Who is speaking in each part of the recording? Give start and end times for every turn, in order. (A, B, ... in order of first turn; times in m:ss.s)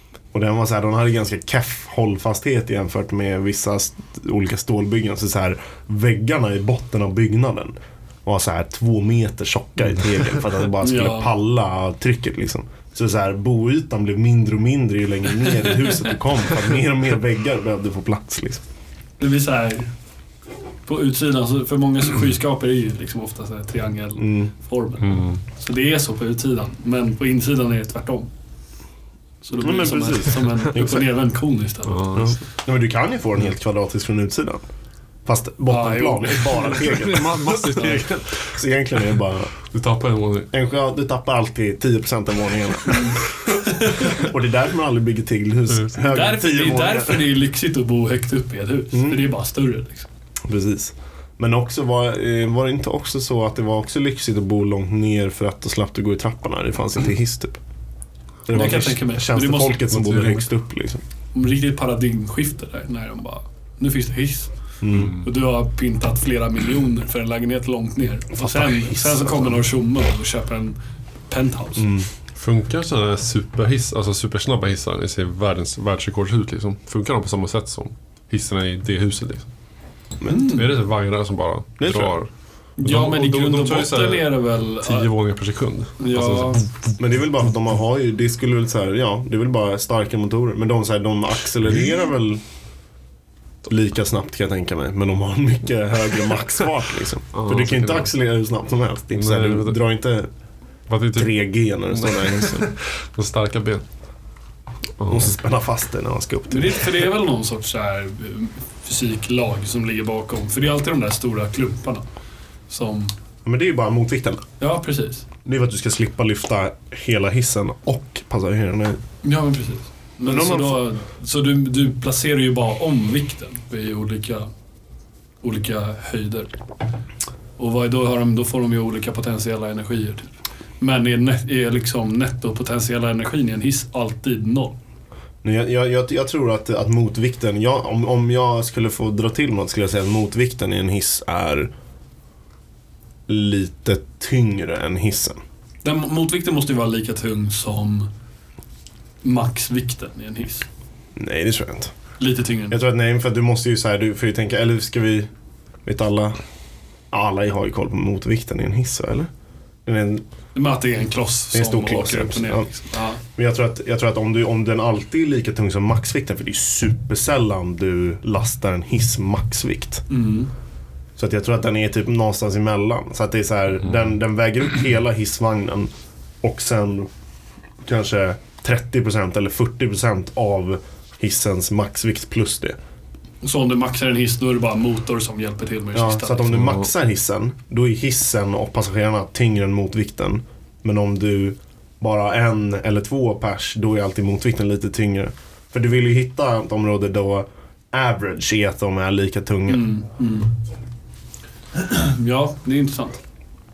0:00.3-0:18.6 A
0:10.8-0:11.3 B
0:19.2-0:19.9 B
0:20.9-0:28.3 B
0:24.2-0:24.5 A
0:25.0-0:25.4 C
0:29.4-0:32.1 B
0:29.6-0:31.0 A
0:31.9-0:32.4 C
0:32.1-0:34.6 A
0:35.2-0:39.5 A
0:35.7-0:38.0 B
0:36.7-0:38.6 C
0:39.7-0:40.5 C
0:40.5-0:43.3 A
0:42.9-0:43.2 B
0:44.0-0:47.4 A
0:46.1-0:50.1 B
0:48.9-0:49.3 A
0:50.4-0:57.6 A
0:58.5-1:01.0 A
0:58.5-1:00.0 B
0:59.9-1:00.4 C
1:01.3-1:10.8 B
1:04.8-1:05.2 A
1:04.9-1:05.3 C
1:08.4-1:09.6 A
1:11.3-1:11.9 B
1:11.8-1:12.1 A
1:12.4-1:19.5 C
1:20.2-1:20.5 A
1:20.3-1:20.6 B
1:20.5-1:27.0 C
1:21.8-1:22.2 A
1:22.8-1:25.1 B
1:26.0-1:26.7 B
1:27.0-1:32.4 A
1:33.7-1:40.3 A
1:37.3-1:38.1 C
1:39.2-1:39.8 C
1:40.9-1:41.4 C
1:41.1-1:42.7 A
1:41.9-1:43.8 C
1:45.0-1:45.4 C
1:45.1-1:46.9 A
1:46.5-1:52.1 B
1:52.7-1:53.1 B
1:53.4-1:54.4 A
1:54.6-1:55.3 B
1:55.4-1:59.0 A
1:59.2-2:04.5 B
2:00.2-2:00.8 A
2:05.4-2:06.5 B
2:07.6-2:14.8 B
2:15.4-2:21.7 A
2:23.3-2:25.4 A
2:25.8-2:28.1 B
2:29.2-2:30.7 B
2:31.2-2:31.9 A
2:32.2-2:32.8 B
2:32.7-2:35.3 A
2:35.8-2:36.4 A
2:37.1-2:39.3 A
2:39.9-2:40.2 A
2:40.5-2:43.2 B
2:41.5-2:42.7 A
2:43.2-2:50.0 A
2:50.1-2:50.5 B
2:51.2-2:57.1 A
2:57.8-3:02.8 A
3:03.4-3:06.6 B
3:05.9-3:19.9 A
3:06.5-3:06.9 C
3:19.7-3:20.5 B
3:21.7-3:23.2 B